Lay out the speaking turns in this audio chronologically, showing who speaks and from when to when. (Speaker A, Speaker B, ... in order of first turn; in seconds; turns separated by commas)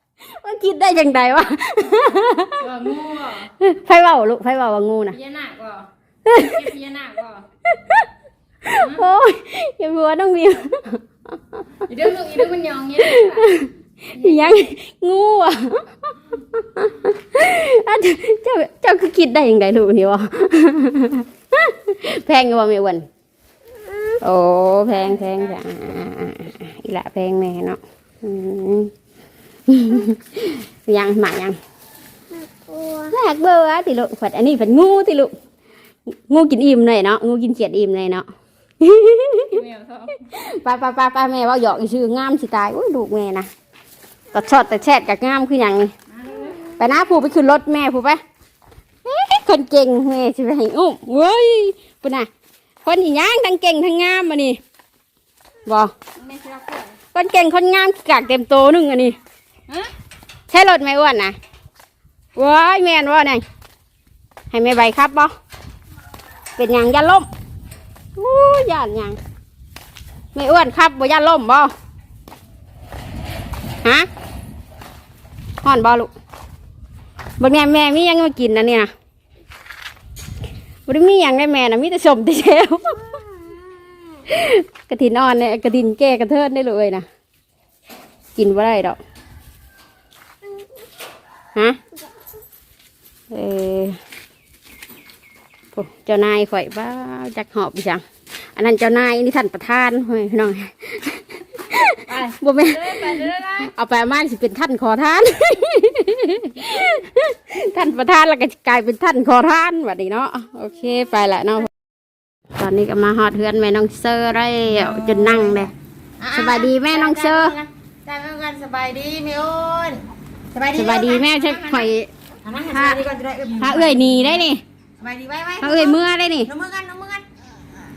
Speaker A: 0.3-2.7, Speaker B: 2.6-3.5, Speaker A: 3.6-5.2, Speaker B: 5.1-7.5, Speaker A: 6.3-6.6, Speaker A: 7.7-8.1, Speaker A: 8.6-11.0, Speaker B: 8.8-9.0, Speaker B: 11.9-14.5, Speaker A: 13.0-23.1, Speaker A: 24.2-28.9, Speaker B: 24.9-25.6, Speaker A: 29.7-31.6, Speaker A: 33.0-35.3, Speaker A: 36.1-38.3, Speaker A: 38.8-39.6, Speaker B: 39.5-40.3, Speaker A: 40.3-43.5, Speaker A: 44.3-45.9, Speaker B: 46.1-46.6, Speaker A: 46.8-48.2, Speaker A: 49.0-52.3, Speaker A: 52.8-54.6, Speaker A: 55.7-55.9, Speaker B: 56.2-57.0, Speaker A: 57.1-59.2, Speaker A: 60.5-61.4, Speaker A: 62.4-63.4, Speaker A: 64.5-65.3, Speaker A: 66.6-67.3, Speaker A: 68.2-69.2, Speaker A: 70.3-71.7, Speaker A: 75.6-76.1, Speaker A: 77.4-78.9, Speaker A: 80.9-83.2, Speaker A: 84.3-87.1, Speaker A: 88.3-89.0, Speaker A: 93.3-94.0, Speaker A: 95.8-111.7, Speaker B: 102.1-103.7, Speaker A: 112.6-115.7, Speaker C: 114.7-121.9, Speaker A: 116.3-117.5, Speaker A: 120.8-122.1, Speaker C: 122.4-124.5, Speaker A: 122.7-123.0, Speaker A: 123.6-124.6, Speaker C: 125.0-127.2, Speaker A: 125.6-126.5